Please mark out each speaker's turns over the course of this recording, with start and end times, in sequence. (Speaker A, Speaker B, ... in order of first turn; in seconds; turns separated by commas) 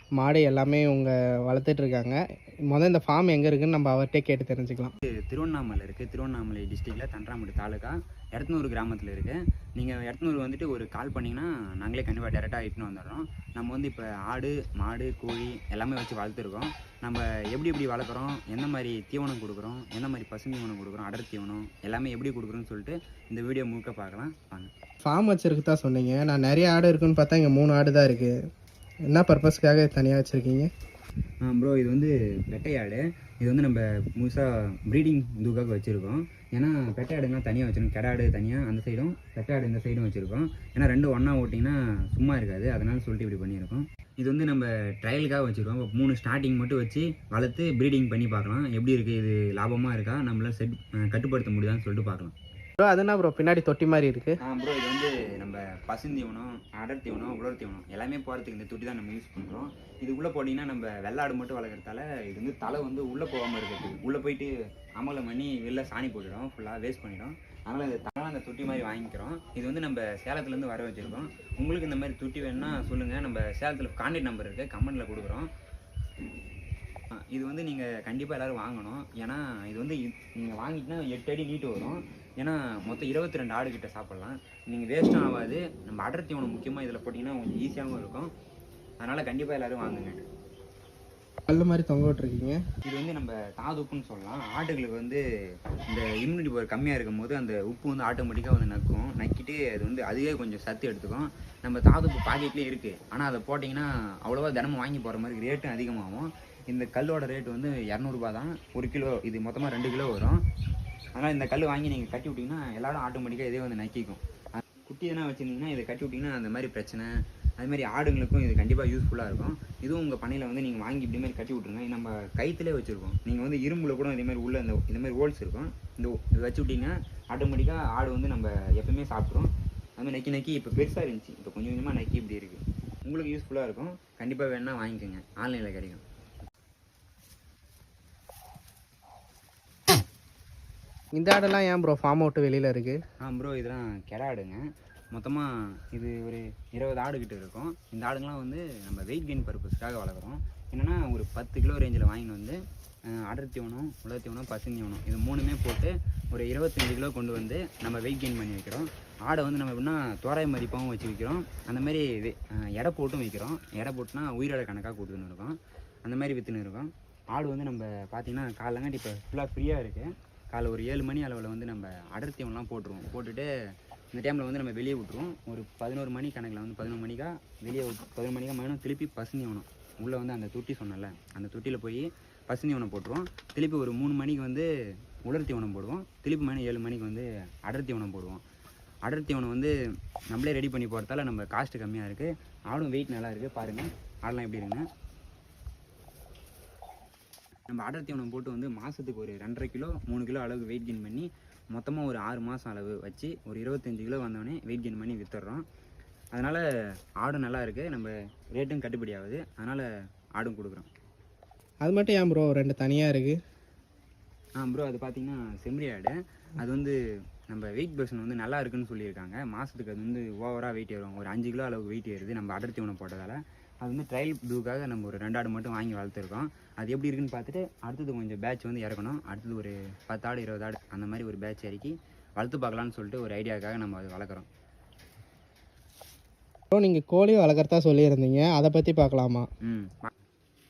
Speaker A: 0.2-2.1, Speaker A: 2.7-4.9, Speaker B: 5.2-24.7, Speaker A: 25.0-28.4, Speaker A: 29.1-30.7, Speaker B: 31.4-52.3, Speaker A: 52.8-54.4, Speaker B: 54.4-75.5, Speaker B: 77.3-88.3, Speaker B: 89.0-90.2, Speaker A: 91.5-92.6, Speaker B: 92.8-95.2, Speaker B: 95.9-110.4, Speaker B: 111.1-136.0, Speaker A: 141.2-143.0, Speaker B: 143.2-144.6, Speaker B: 145.1-152.6, Speaker B: 153.1-173.5, Speaker B: 174.1-184.7, Speaker B: 185.2-188.4, Speaker B: 189.1-189.7, Speaker B: 190.3-194.8, Speaker B: 197.7-205.6, Speaker B: 206.3-206.6, Speaker B: 207.2-210.9, Speaker A: 211.8-213.4, Speaker B: 214.6-217.0, Speaker B: 217.5-234.5, Speaker A: 236.7-239.5, Speaker B: 239.6-240.1